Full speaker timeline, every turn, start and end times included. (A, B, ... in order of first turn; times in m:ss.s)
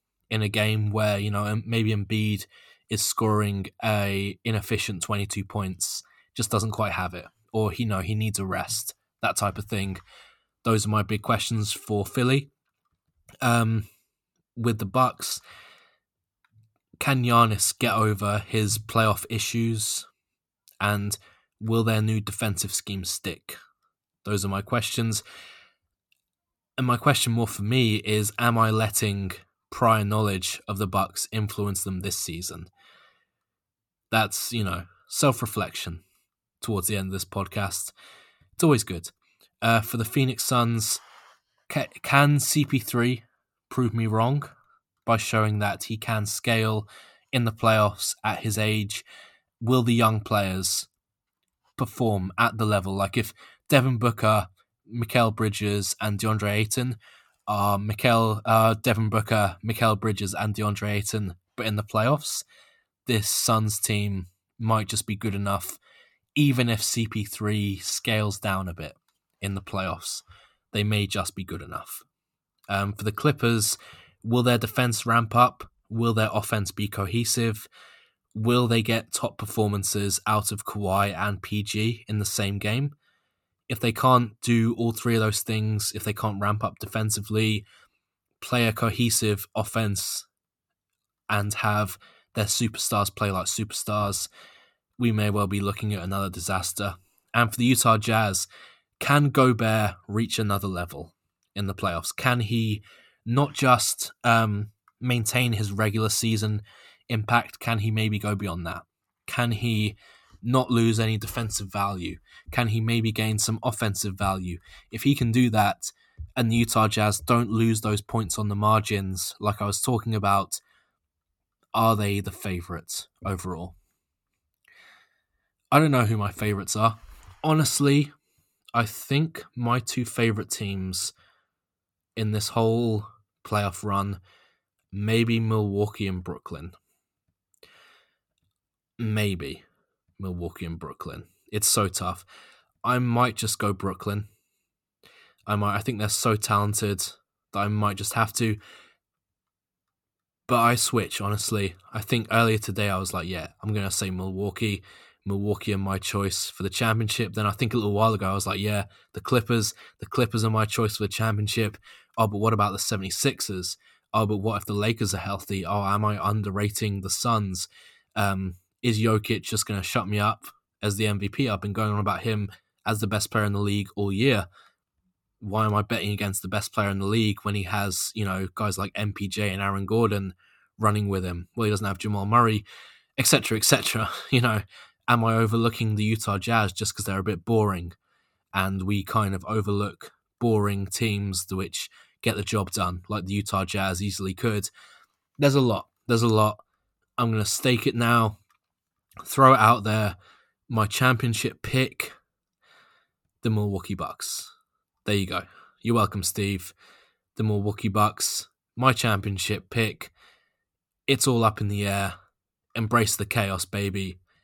0:00.3-0:10.0 A
0:10.6-0:12.5 A
0:13.4-0:13.9 A
0:14.6-0:15.4 A
0:17.0-0:20.1 A
0:20.8-0:23.6 A
0:24.2-0:25.2 A
0:26.8-0:32.7 A
0:34.1-0:36.0 A
0:36.6-0:38.0 A
0:38.6-0:41.0 A
0:41.7-0:44.5 A
0:45.1-0:49.0 A
0:49.6-0:50.9 A
0:51.8-1:02.4 A
1:03.1-1:05.8 A
1:06.4-1:12.1 A
1:12.7-1:17.7 A
1:18.3-1:22.9 A
1:23.7-1:27.7 A
1:28.4-1:30.3 A
1:31.3-1:34.3 A
1:35.0-1:38.5 A
1:39.0-2:00.6 A
2:01.7-2:03.8 A
2:05.7-2:08.1 A
2:08.7-2:11.1 A
2:12.2-2:14.2 A
2:14.9-2:16.8 A
2:19.0-2:19.6 A
2:20.2-2:22.3 A
2:22.8-2:24.3 A
2:25.5-2:28.6 A
2:30.5-2:54.5 A
2:55.4-3:02.6 A
3:03.2-3:08.0 A
3:08.6-3:14.7 A
3:15.4-3:16.6 A
3:17.2-3:18.4 A
3:19.2-3:20.2 A
3:20.7-3:22.2 A
3:23.4-3:24.5 A
3:25.0-3:26.8 A
3:27.4-3:30.1 A
3:31.1-3:32.1 A
3:32.8-3:34.2 A